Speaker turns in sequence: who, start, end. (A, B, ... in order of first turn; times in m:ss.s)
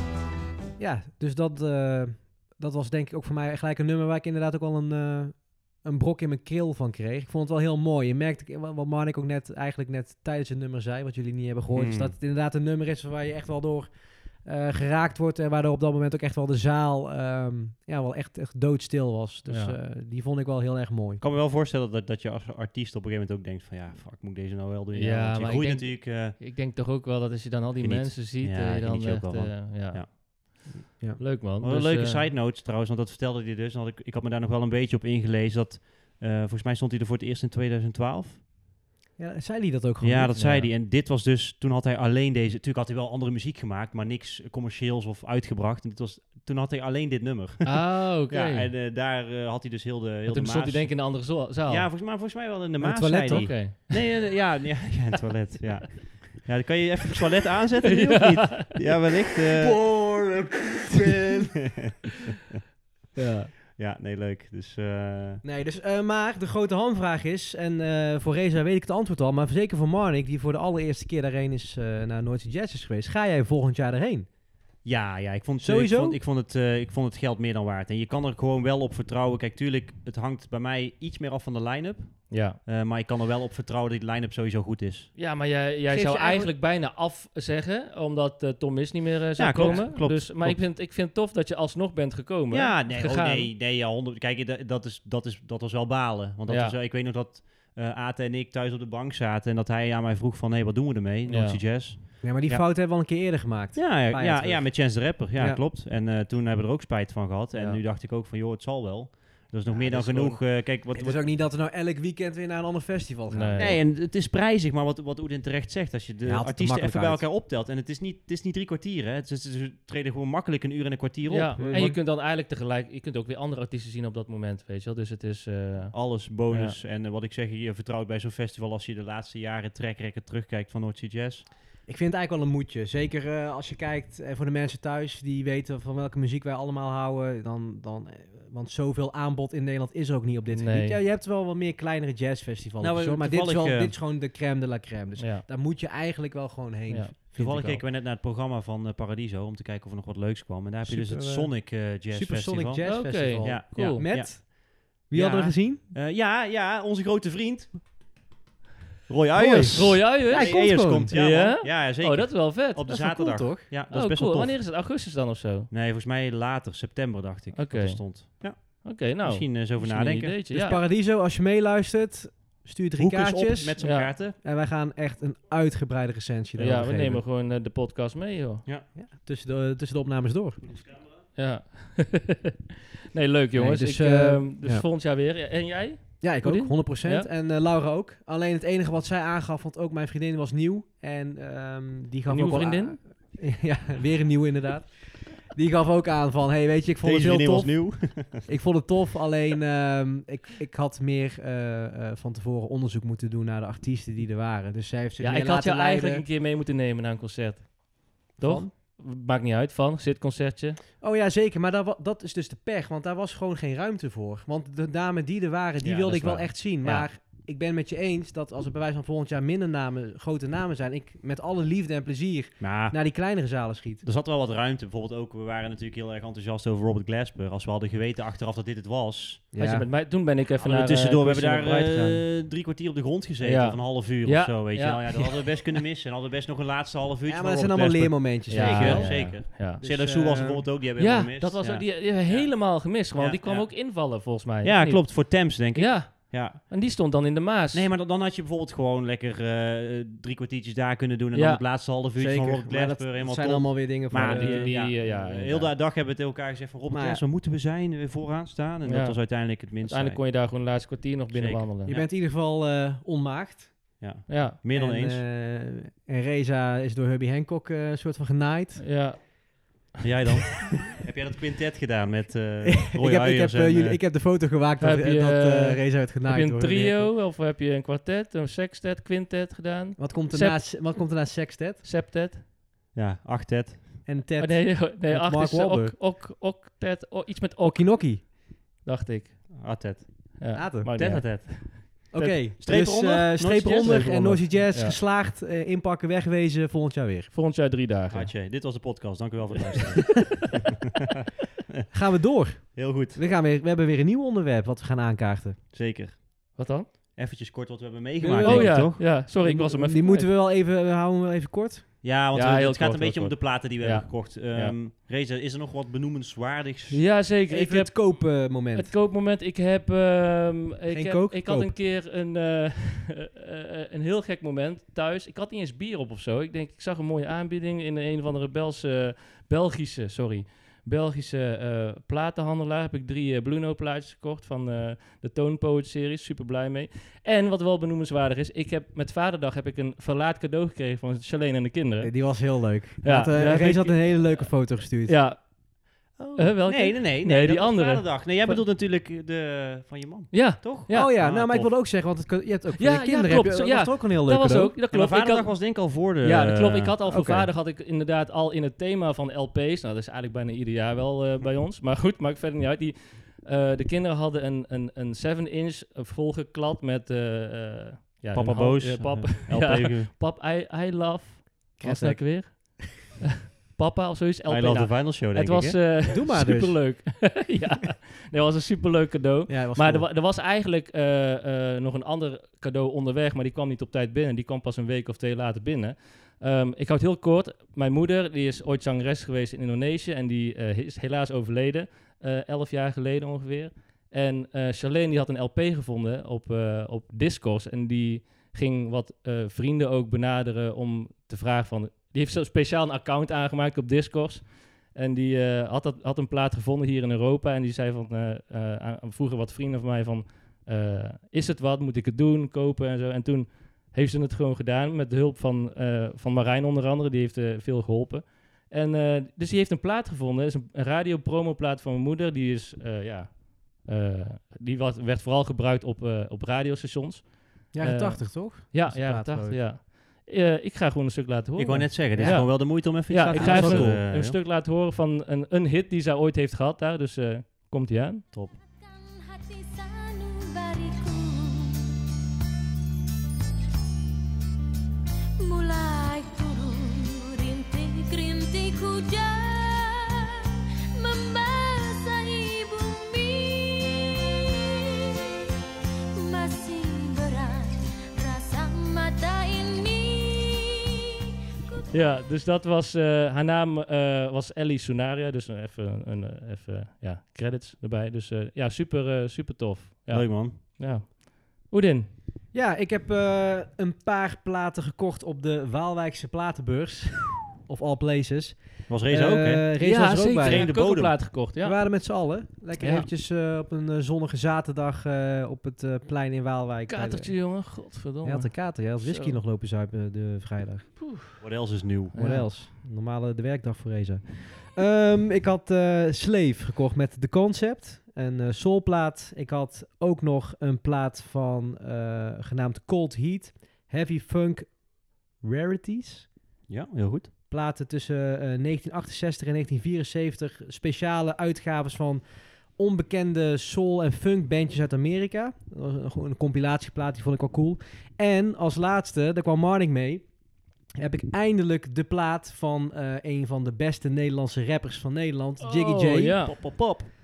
0:00.8-0:21.2 A
0:11.7-0:12.1 B
0:19.5-0:19.8 C
0:21.2-0:26.4 B
0:24.9-0:30.6 C
0:27.8-0:30.1 B
0:30.9-0:31.3 A
0:31.2-0:32.2 C
0:31.6-0:38.4 B
0:39.2-0:40.7 A
0:40.0-0:59.8 B
0:47.7-0:48.7 C
0:50.3-0:51.9 C
0:52.8-0:53.7 A
0:53.3-0:54.1 C
0:57.9-0:58.7 C
0:59.6-1:01.5 A
1:00.9-1:01.9 B
1:03.1-1:03.5 C
1:03.7-1:05.4 B
1:05.4-1:14.3 A
1:14.8-1:25.1 B
1:15.6-1:16.2 A
1:22.3-1:22.6 C
1:25.2-1:33.5 C
1:25.9-1:26.5 A
1:29.4-1:30.6 B
1:32.5-1:42.7 B
1:36.5-1:36.8 C
1:41.3-1:41.6 C
1:42.2-1:45.6 A
1:43.7-1:51.3 B
1:49.7-1:53.8 A
1:53.3-1:53.8 C
1:53.6-2:02.0 B
1:56.2-1:57.3 A
2:01.3-2:06.0 C
2:01.6-2:01.9 A
2:05.9-2:11.5 B
2:06.5-2:06.8 C
2:11.9-2:27.8 A
2:20.5-2:21.0 C
2:22.8-2:24.0 B
2:25.2-2:25.4 C
2:27.4-2:37.9 B
2:30.8-2:35.8 A
2:32.8-2:34.1 C
2:39.1-2:44.6 B
2:39.4-2:41.1 A
2:39.7-2:42.8 C
2:42.9-2:43.7 A
2:43.9-2:45.7 C
2:45.7-2:50.4 B
2:47.6-2:50.8 C
2:50.5-2:57.2 A
2:53.0-2:54.4 B
2:53.8-2:54.1 C
2:56.6-2:58.6 C
2:59.0-3:00.6 A
3:00.6-3:00.9 B
3:01.4-3:02.5 C
3:03.1-3:07.3 C
3:03.6-3:04.9 A
3:06.2-3:26.3 A
3:12.3-3:13.0 C
3:17.0-3:18.5 B
3:25.2-3:30.8 C
3:28.4-3:28.7 A
3:31.0-3:44.0 A
3:36.0-3:36.6 B
3:42.6-3:43.0 B
3:44.0-3:49.5 B
3:49.5-3:49.9 A
3:49.6-3:52.2 C
3:50.6-4:06.7 B
3:53.4-3:55.5 C
3:57.2-4:00.7 A
3:58.5-3:59.8 C
4:01.0-4:07.9 C
4:07.7-4:20.8 B
4:11.3-4:11.6 C
4:12.1-4:15.0 A
4:14.1-4:15.7 C
4:16.9-4:17.2 A
4:18.8-4:22.0 C
4:21.3-4:22.0 B
4:21.9-4:24.1 A
4:24.0-4:25.2 B
4:24.3-4:24.6 C
4:24.7-4:29.1 A
4:28.8-4:29.8 C
4:30.0-4:34.0 B
4:32.7-4:37.1 A
4:34.8-4:41.2 C
4:40.0-4:41.8 A
4:41.8-4:42.4 C
4:42.9-4:44.1 B
4:44.1-4:46.0 A
4:44.4-4:49.8 C
4:47.6-4:48.3 A
4:49.6-4:54.6 B
4:50.4-4:52.4 C
4:50.5-4:50.9 A
4:52.1-4:57.3 A
4:53.8-4:55.0 C
4:57.3-4:58.3 C
4:58.1-5:00.6 B
5:01.9-5:05.6 A
5:02.8-5:03.2 B
5:05.7-5:09.0 B
5:06.6-5:06.9 C
5:08.2-5:11.9 A
5:08.4-5:10.3 C
5:12.0-5:17.0 B
5:12.3-5:14.8 C
5:16.9-5:48.6 C
5:17.5-5:19.0 A
5:20.9-5:21.7 A
5:42.0-5:45.2 A
5:46.2-5:51.7 B
5:50.3-5:51.1 C
5:50.9-5:54.7 A
5:52.8-7:18.2 C
5:54.9-5:56.9 B
5:57.1-5:57.5 A
6:08.3-6:10.1 B
6:11.8-6:12.9 A
6:14.5-6:15.8 B
6:16.1-6:17.4 A
6:19.5-6:20.1 A
7:07.7-7:09.7 A
7:11.6-7:14.4 B
7:12.1-7:12.7 A
7:13.3-7:14.0 A
7:18.6-7:21.9 D
7:25.4-7:30.3 D
7:31.0-7:34.2 D
7:36.2-7:40.7 D
7:41.9-7:52.1 C
7:50.1-7:50.6 B
7:52.5-8:00.9 A
7:58.9-7:59.7 B
7:59.8-8:01.8 C
8:00.4-8:01.4 B
8:01.6-8:11.0 A
8:02.8-8:03.1 C
8:06.9-8:09.4 C
8:11.0-8:12.5 C
8:11.4-8:12.1 B
8:12.1-8:26.3 A
8:26.7-8:27.3 B
8:27.5-8:40.3 A
8:41.0-8:46.8 A
8:45.6-8:46.6 C
8:46.4-8:47.1 B